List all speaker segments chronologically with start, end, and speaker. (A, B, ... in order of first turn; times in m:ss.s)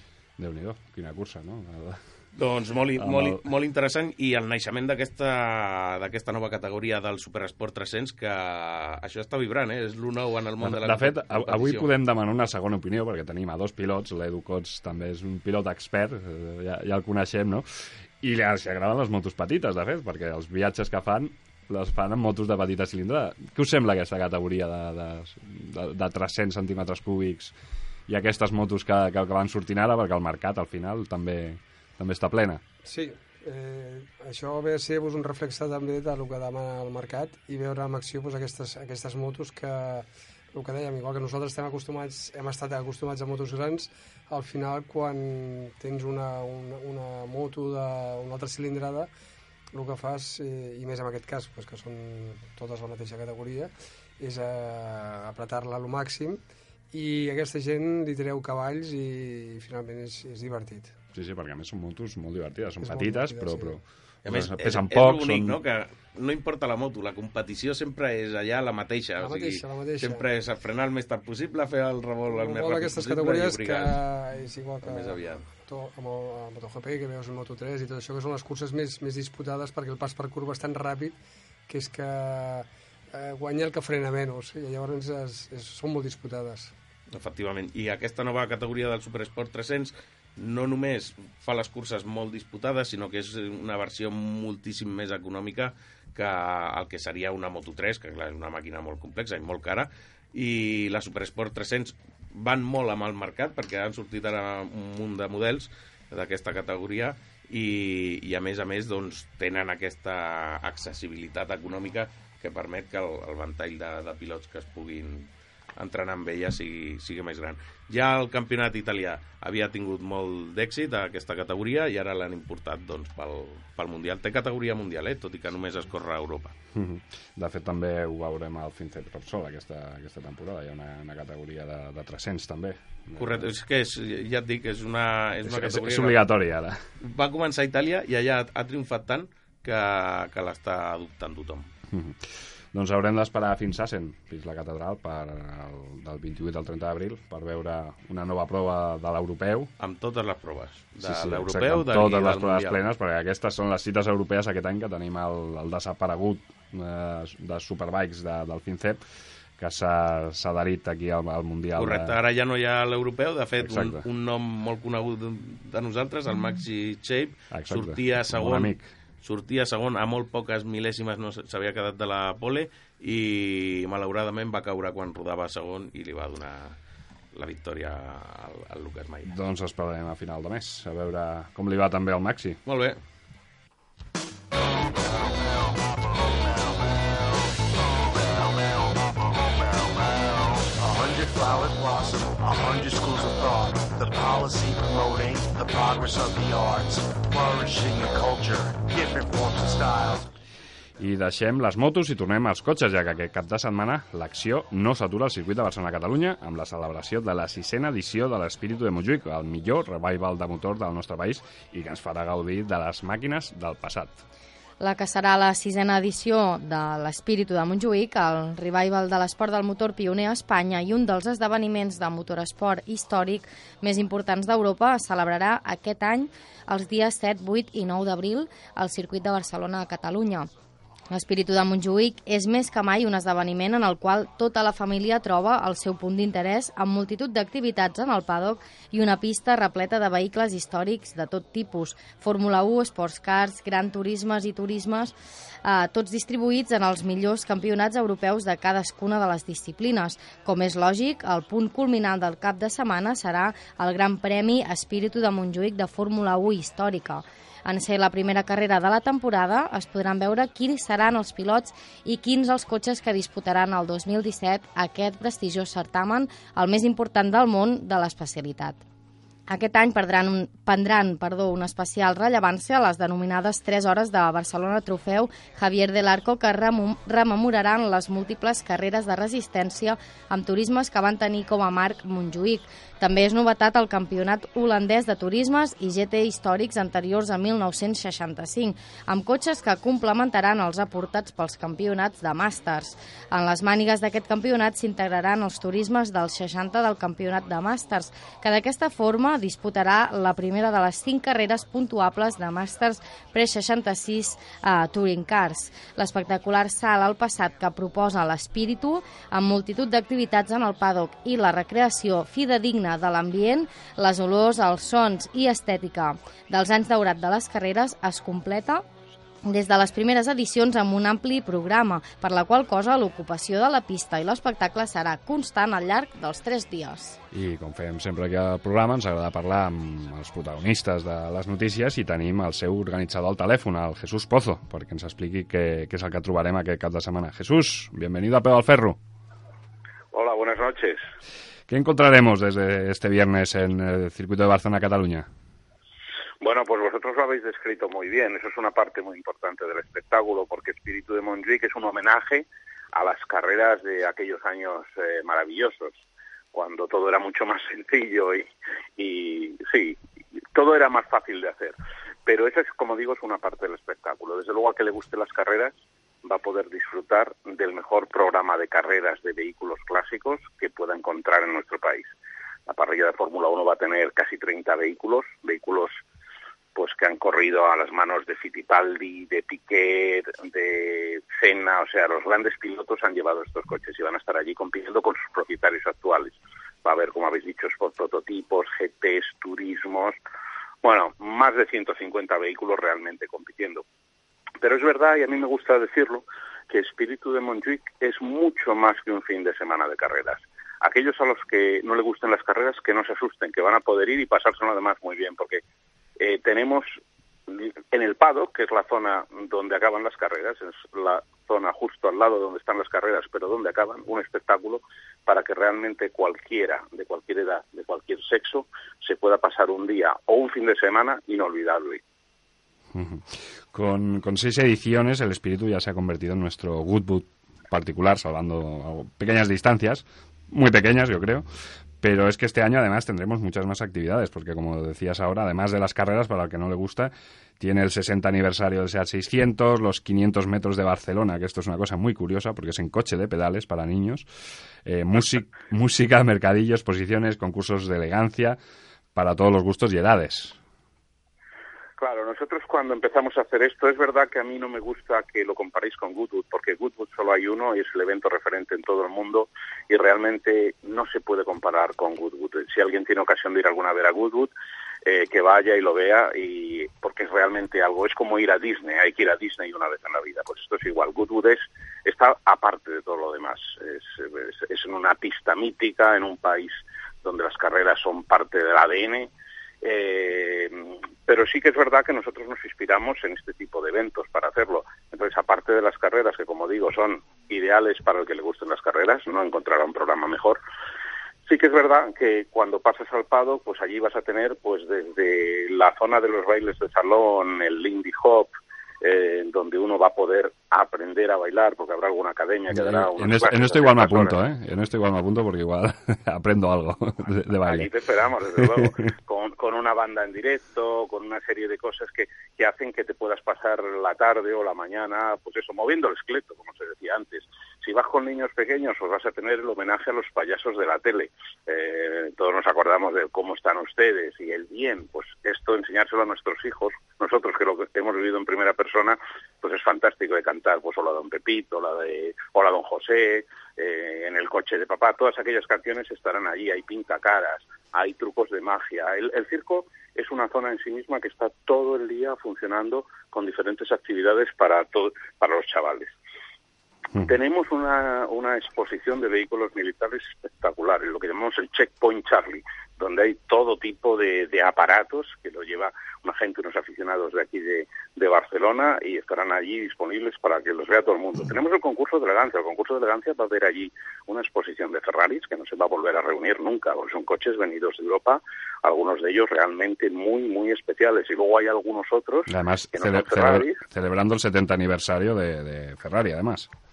0:00.4-0:02.0 A
0:02.3-0:11.9 B
0:03.0-0:03.4 A
0:10.6-0:27.5 A
0:28.1-0:32.6 A
0:32.8-0:49.1 C
0:49.7-0:56.4 C
0:56.9-1:00.9 C
1:01.1-1:05.6 A
1:02.8-1:03.8 C
1:04.2-1:14.0 B
1:09.2-1:10.2 C
1:12.3-1:21.2 C
1:14.8-1:15.4 B
1:21.7-1:26.7 C
1:27.1-2:06.5 B
2:06.7-2:13.5 A
2:13.2-2:16.2 B
2:15.4-2:16.8 A
2:17.0-2:21.7 B
2:21.9-2:29.7 A
2:29.8-2:32.8 B
2:31.0-2:39.0 A
2:39.6-2:42.2 A
2:41.8-2:56.8 B
2:43.6-2:44.0 A
2:47.5-2:48.9 A
2:57.3-2:59.3 B
2:59.2-3:02.6 A
3:02.6-3:03.0 B
3:05.0-3:07.1 D
3:07.8-3:20.3 D
3:21.0-3:34.2 A
3:34.8-3:50.5 E
3:51.1-4:28.8 E
4:29.5-5:18.8 E
5:19.4-5:27.2 E
5:27.3-5:39.0 A
5:40.1-5:41.0 F
5:41.7-5:45.3 A
5:46.4-5:56.0 F
5:56.5-5:58.4 F
5:59.0-6:00.0 F
6:00.5-6:12.1 F
6:12.7-6:15.9 F
6:16.7-6:30.2 F
6:30.8-6:33.8 F
6:34.6-6:45.6 F
6:46.2-6:46.9 F
6:47.5-7:02.0 F
7:02.9-7:11.4 A
7:12.0-7:24.2 A
7:24.8-7:28.6 A
7:29.1-7:30.6 A
7:32.0-7:44.5 F
7:45.0-7:59.3 F
7:59.8-8:10.6 F
8:11.4-8:18.5 F
8:19.0-8:24.3 F
8:22.7-8:27.9 A
8:27.6-9:06.1 F
8:28.6-8:28.9 A
9:07.2-9:33.8 F
9:32.5-9:36.7 A